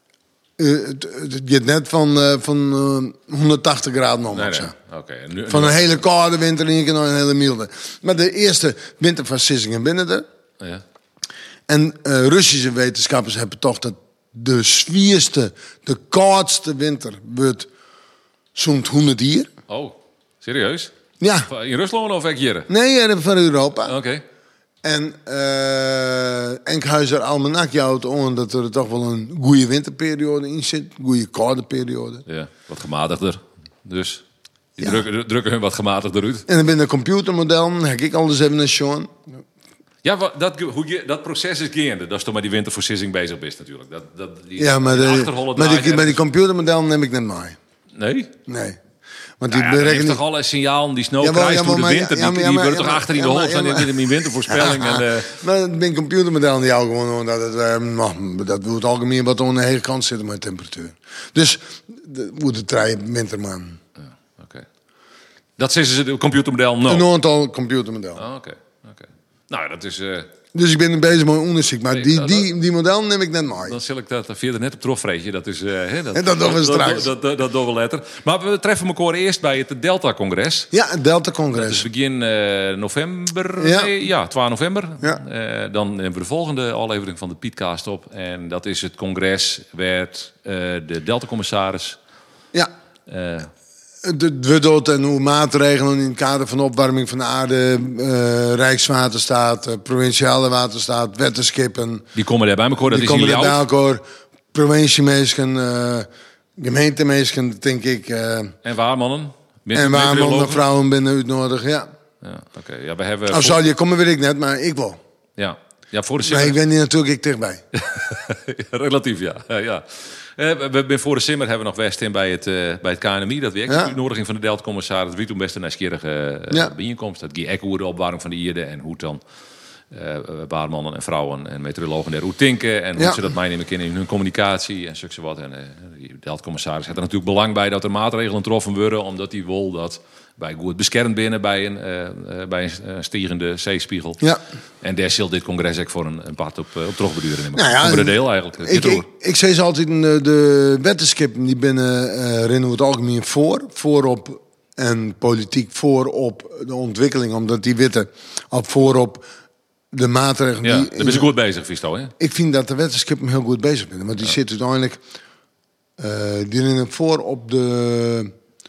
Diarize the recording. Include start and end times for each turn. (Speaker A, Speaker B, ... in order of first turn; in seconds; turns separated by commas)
Speaker A: 0.6-4.7, Speaker B: 4.3-6.0, Speaker A: 5.5-10.2, Speaker A: 11.7-17.7, Speaker A: 18.6-19.5, Speaker B: 19.7-20.9, Speaker A: 21.2-21.5, Speaker B: 21.5-22.7, Speaker A: 22.7-24.0, Speaker B: 23.9-24.2, Speaker A: 24.8-32.2, Speaker B: 32.3-34.2, Speaker B: 34.8-36.5, Speaker A: 36.5-39.1, Speaker B: 40.0-46.2, Speaker A: 44.6-47.6, Speaker B: 48.0-48.3, Speaker A: 48.5-48.8, Speaker A: 49.4-50.2, Speaker B: 49.5-55.4, Speaker A: 51.2-63.8, Speaker B: 64.4-64.7, Speaker B: 65.6-67.1, Speaker A: 66.9-68.2, Speaker B: 68.2-70.3, Speaker A: 70.5-73.8, Speaker B: 71.9-72.5, Speaker B: 73.7-80.7, Speaker A: 76.1-77.1, Speaker A: 80.7-81.9, Speaker B: 81.5-92.0, Speaker A: 83.6-83.9, Speaker B: 93.1-93.5, Speaker A: 94.0-102.1, Speaker B: 102.2-103.7, Speaker A: 102.9-104.0, Speaker A: 104.5-108.5, Speaker B: 108.6-110.7, Speaker A: 109.7-111.9, Speaker B: 112.2-113.6, Speaker A: 113.3-115.0, Speaker B: 115.4-116.6, Speaker A: 116.2-117.6, Speaker B: 117.7-129.2, Speaker A: 123.7-124.0, Speaker B: 129.9-144.2, Speaker B: 144.8-149.1, Speaker A: 147.5-159.3, Speaker A: 159.9-161.3, Speaker B: 160.6-162.1, Speaker A: 162.2-165.0, Speaker A: 166.0-168.3